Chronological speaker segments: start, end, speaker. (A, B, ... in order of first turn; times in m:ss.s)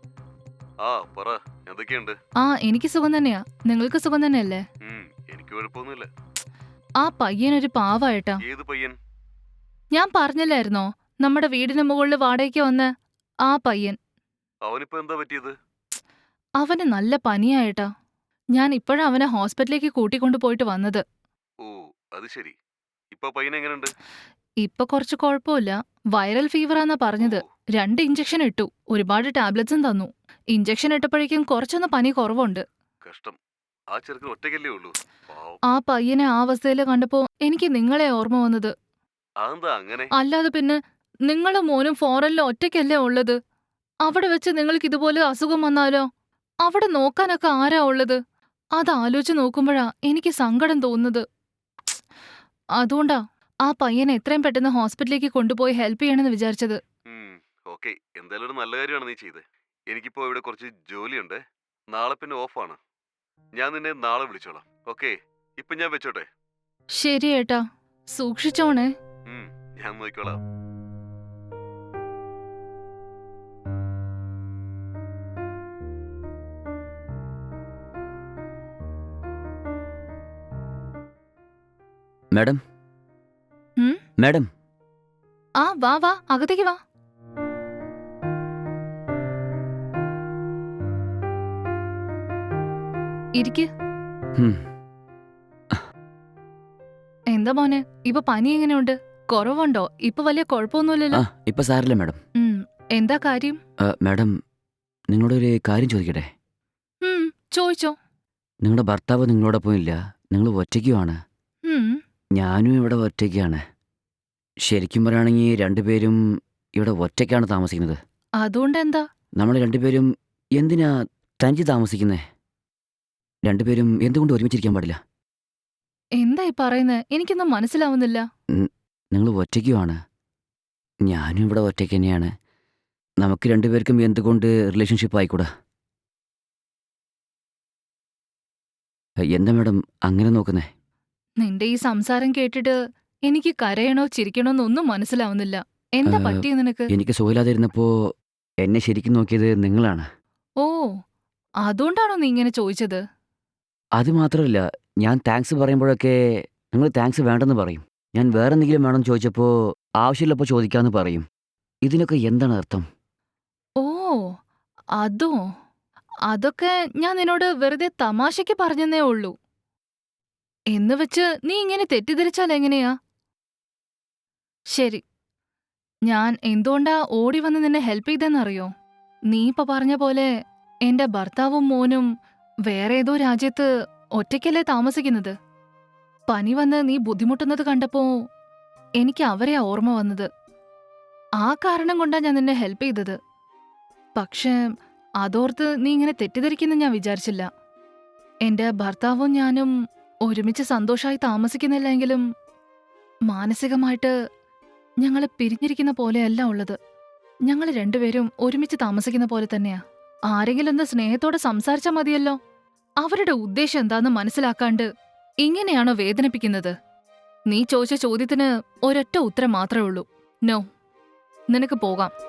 0:00.8-0:02.2 A
0:02.4-0:04.6 B
0:04.8-0:06.1 A
0:07.0-0:08.4 B
0:08.4-0:09.0 A
0:09.9-0:12.9 B
0:13.5-0:14.0 B
0:14.7-0:15.5 A
0:16.6-0:17.9 B
0:18.6-0:21.0 B
0:21.6-0:22.6 A
0:23.1-0:23.9 A
0:24.6-0:32.6 B
0:33.0-0:33.4 A
0:33.9-0:35.6 A
0:35.7-0:38.7 B
0:39.4-0:40.1 A
0:40.2-0:40.8 B
0:41.3-0:43.4 B
0:44.0-0:46.1 B
0:46.6-0:48.2 B
0:48.8-0:51.2 B
0:52.8-0:56.8 B
0:57.1-1:01.4 A
1:01.9-1:02.8 A
1:03.6-1:06.3 A
1:07.0-1:07.6 B
1:08.1-1:08.9 B
1:09.3-1:10.4 A
1:22.3-1:22.6 C
1:24.2-1:24.5 C
1:25.6-1:26.8 B
1:33.4-1:33.7 B
1:34.4-1:34.6 C
1:37.3-1:41.2 B
1:41.2-1:42.2 C
1:42.4-1:43.6 B
1:43.8-1:44.3 C
1:45.1-1:46.3 C
1:47.0-1:47.9 B
1:48.6-1:51.2 C
1:51.7-1:52.0 B
1:52.4-1:53.6 C
1:54.7-1:56.2 C
1:56.8-1:58.0 C
1:58.4-1:59.0 B
1:59.4-2:02.2 C
2:03.5-2:05.0 C
2:06.2-2:08.2 B
2:08.5-2:10.0 C
2:11.1-2:12.3 C
2:13.2-2:15.5 C
2:19.3-2:20.7 C
2:21.4-2:22.8 B
2:23.3-2:26.9 B
2:26.1-2:27.9 C
2:28.6-2:30.1 C
2:30.6-2:30.9 B
2:31.6-2:33.0 B
2:34.0-2:36.2 C
2:36.7-2:41.2 C
2:41.8-2:42.8 C
2:43.8-2:44.2 B
2:45.0-2:45.3 B
2:46.3-2:49.3 B
2:50.7-2:52.9 B
2:54.8-2:55.0 B
2:56.1-2:58.7 B
2:59.3-3:00.3 B
3:00.9-3:02.1 B
3:02.7-3:03.7 B
3:04.2-3:05.3 B
3:06.3-3:08.1 B
3:09.0-3:10.3 B
3:11.4-3:13.2 B
3:14.2-3:14.6 B
3:15.2-3:17.5 B
3:18.4-3:19.7 B
3:20.3-3:22.2 B
3:23.3-3:24.1 B
3:25.0-3:26.8 B
3:27.5-3:29.8 B
3:30.3-3:32.4 B
3:33.0-3:34.9 B
3:35.4-3:36.7 B
3:37.5-3:40.6 B
3:41.5-3:42.1 B